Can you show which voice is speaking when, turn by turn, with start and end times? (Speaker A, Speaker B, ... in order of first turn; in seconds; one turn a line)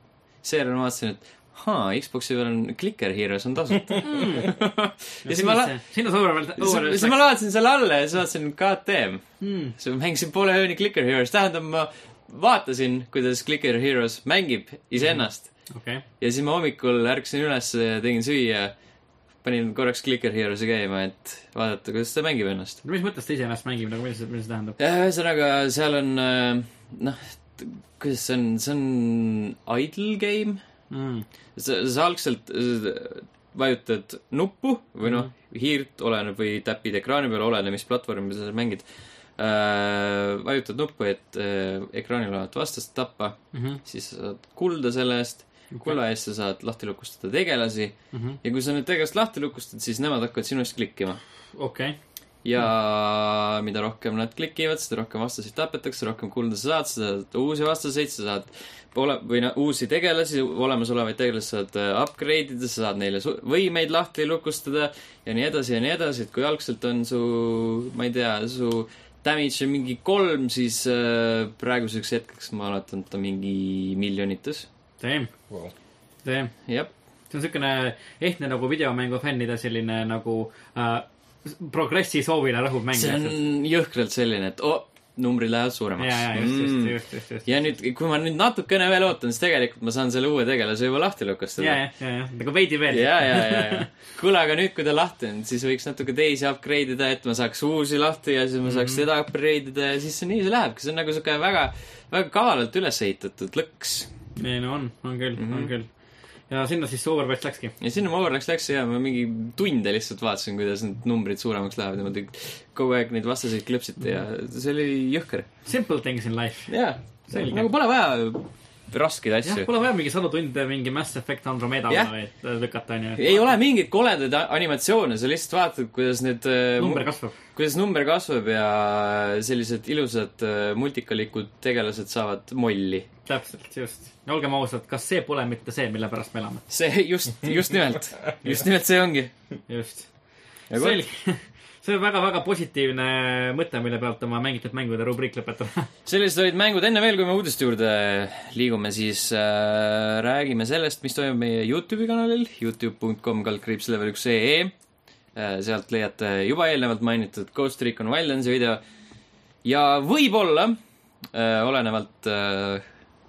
Speaker A: 0.4-5.8
Speaker B: 4.0-4.7
Speaker B: 5.2-7.2
Speaker A: 6.6-15.5
Speaker B: 9.4-9.7
Speaker B: 15.0-16.0
Speaker A: 16.2-18.7
Speaker A: 19.4-22.8
Speaker B: 22.8-24.8
Speaker A: 24.8-30.6
Speaker B: 30.9-31.3
Speaker A: 31.6-38.9
Speaker B: 35.0-35.3
Speaker A: 39.4-51.2
Speaker B: 43.5-43.8
Speaker B: 45.7-46.0
Speaker B: 48.1-48.4
Speaker B: 51.6-52.0
Speaker A: 52.4-74.7
Speaker B: 75.0-75.3
Speaker B: 76.2-76.5
Speaker B: 77.3-83.3
Speaker A: 82.9-91.8
Speaker B: 86.0-87.5
Speaker B: 91.6-93.9
Speaker A: 92.9-104.1
Speaker B: 98.7-99.0
Speaker B: 104.4-105.9
Speaker A: 105.4-105.7
Speaker B: 106.5-107.7
Speaker A: 107.8-115.5
Speaker B: 115.7-116.7
Speaker A: 116.7-119.7
Speaker B: 117.3-117.7
Speaker B: 119.4-123.5
Speaker A: 123.2-133.1
Speaker B: 126.8-127.3
Speaker B: 133.2-136.6
Speaker A: 136.7-139.3
Speaker B: 139.7-140.1
Speaker A: 140.7-141.0
Speaker B: 140.7-145.9
Speaker A: 146.1-154.7
Speaker A: 155.3-158.8
Speaker A: 159.6-160.8
Speaker A: 161.3-162.8